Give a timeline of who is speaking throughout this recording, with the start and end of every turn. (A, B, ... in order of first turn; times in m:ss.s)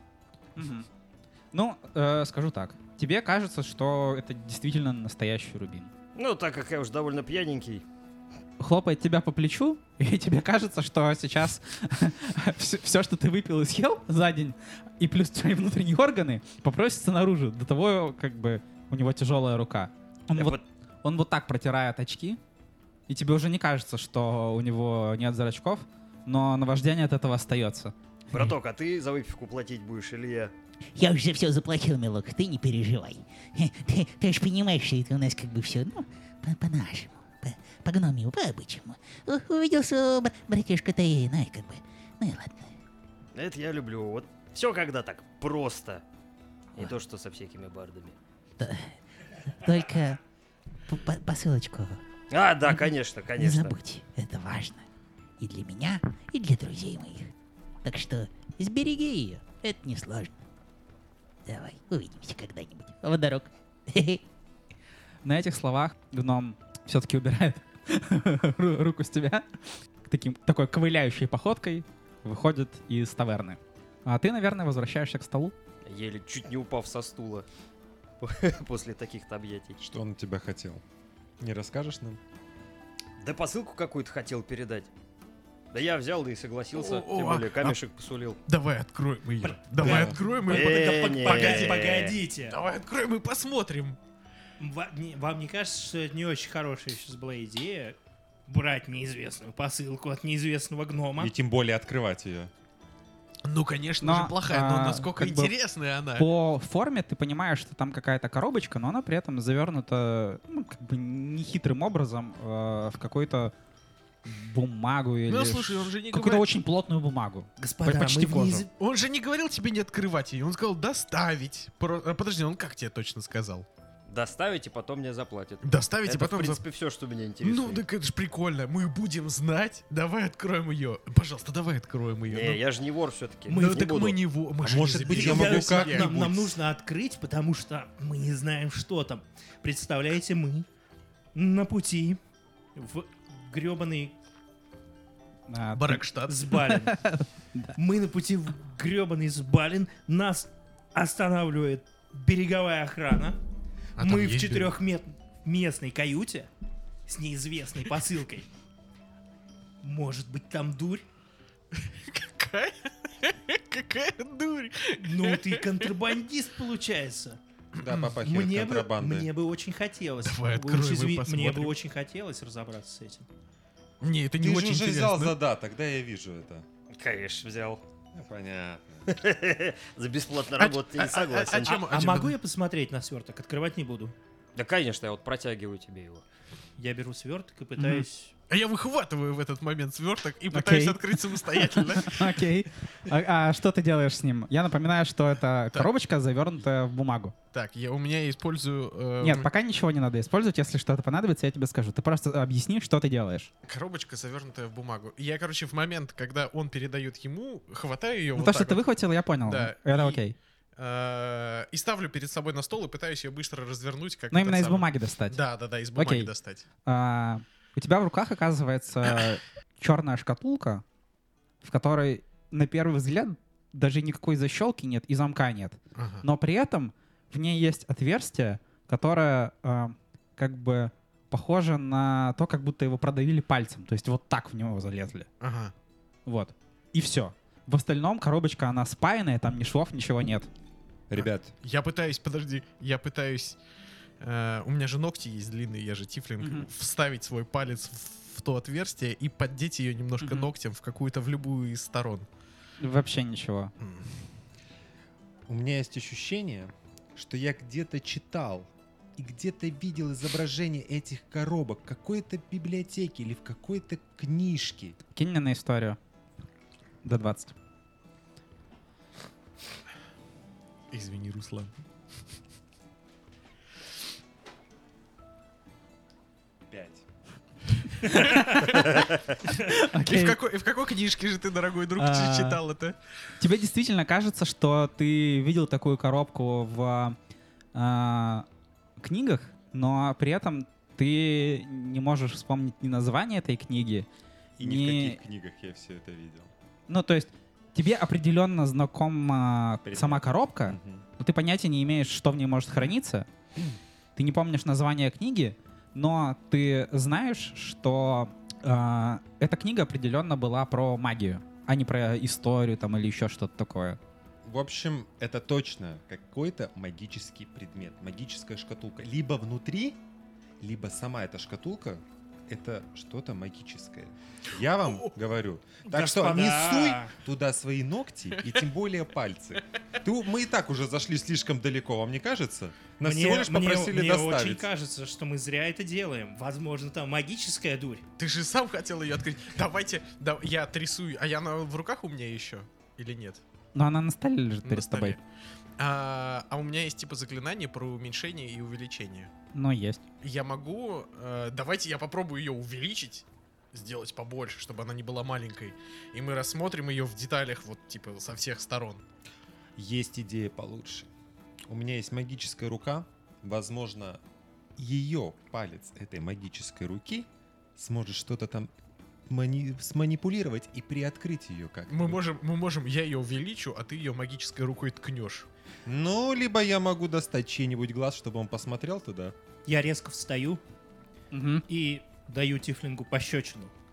0:00.6-0:00.9 A
0:01.5-0:05.9 A
0:06.2-0:07.8 B
0:08.6-0:22.4 A
0:20.4-0:20.6 B
0:23.1-0:27.9 A
0:28.3-0:30.5 B
0:31.0-0:42.7 C
0:43.4-0:46.0 B
0:46.8-0:48.2 B
0:48.6-0:49.0 C
0:49.5-0:50.2 C
0:50.9-0:52.0 C
0:52.3-0:53.8 B
0:52.6-0:54.9 C
0:55.4-0:57.3 C
0:57.8-1:00.3 C
1:01.5-1:04.2 C
1:05.2-1:09.5 A
1:10.0-1:15.6 A
1:15.9-1:17.5 B
1:18.2-1:19.8 B
1:19.8-1:20.8 D
1:21.4-1:22.2 D
1:23.2-1:24.9 B
1:25.7-1:28.4 B
1:26.7-1:27.8 E
1:28.5-1:31.8 E
1:29.4-1:32.6 F
1:29.8-1:30.2 D
1:30.4-1:32.2 B
1:32.5-1:34.0 E
1:34.6-1:38.0 F
1:38.5-1:41.3 F
1:41.2-1:42.5 D
1:43.4-1:46.3 E
1:44.0-1:45.6 A
1:46.1-1:53.5 A
1:54.2-1:58.7 A
1:55.3-1:56.5 E
1:57.6-1:58.7 F
1:58.8-2:03.7 E
2:04.1-2:07.8 B
2:05.6-2:06.6 E
2:07.4-2:12.6 E
2:12.3-2:14.2 B
2:13.5-2:13.9 F
2:13.5-2:16.2 E
2:14.6-2:16.5 D
2:15.1-2:20.7 F
2:21.4-2:22.2 F
2:22.8-2:24.2 F
2:25.5-2:27.7 A
2:25.8-2:26.5 E
2:26.3-2:27.0 F
2:27.8-2:33.4 F
2:34.0-2:34.7 E
2:34.0-2:36.5 F
2:37.1-2:38.5 F
2:39.8-2:41.0 F
2:41.8-2:45.9 E
2:45.0-2:47.4 F
2:47.8-2:48.1 E
2:47.8-2:49.3 D
2:48.2-2:53.3 F
2:50.2-2:51.7 E
2:54.0-2:55.4 E
2:54.4-2:56.7 D
2:56.9-2:57.8 B
2:58.1-2:59.0 D
2:59.1-3:01.8 B
3:00.6-3:02.4 E
3:01.6-3:04.1 F
3:04.6-3:06.2 B
3:06.8-3:08.3 F
3:07.8-3:08.1 A
3:08.5-3:12.4 E
3:10.5-3:17.4 A
3:17.5-3:19.5 E
3:19.2-3:23.5 A
3:23.7-3:28.8 E
3:28.4-3:30.4 A
3:29.4-3:30.2 E
3:30.8-3:36.6 E
3:34.3-3:35.4 A
3:36.0-3:36.3 A
3:36.8-3:40.8 A
3:41.6-3:55.3 A
3:46.0-3:46.3 E
3:55.4-3:55.7 E
3:56.3-4:00.5 A
4:01.1-4:01.5 D
4:01.2-4:03.6 E
4:04.2-4:12.3 E
4:06.4-4:06.7 A
4:10.2-4:10.5 A
4:12.8-4:13.7 A
4:13.8-4:14.1 E
4:15.5-4:25.0 D
4:25.2-4:26.0 A
4:27.0-4:27.5 A
4:30.9-4:31.8 E
4:36.7-4:37.0 D
4:37.9-4:39.0 E
4:38.2-4:38.5 A
4:39.7-4:40.4 A
4:39.8-4:43.0 E
4:42.0-4:42.6 A
4:43.4-4:47.2 A
4:47.7-4:48.5 A
4:49.0-4:54.1 A
4:54.6-4:55.2 A
4:54.6-4:56.5 D
4:56.9-5:03.3 A
4:59.8-5:01.0 D
5:04.2-5:14.0 A
5:14.4-5:20.0 D
5:20.6-5:34.7 D
5:24.8-5:25.1 E
5:25.8-5:27.2 F
5:33.0-5:38.0 F
5:38.2-5:43.4 E
5:43.7-5:45.2 A
5:44.6-5:45.2 E
5:45.8-5:49.3 E
5:49.5-5:50.0 A
5:50.2-5:59.0 E
5:59.8-6:01.1 D
6:01.7-6:04.2 D
6:04.8-6:08.7 D
6:09.3-6:12.2 D
6:11.9-6:15.5 E
6:15.9-6:19.4 D
6:19.7-6:20.6 F
6:21.3-6:21.6 A
6:21.7-6:23.7 F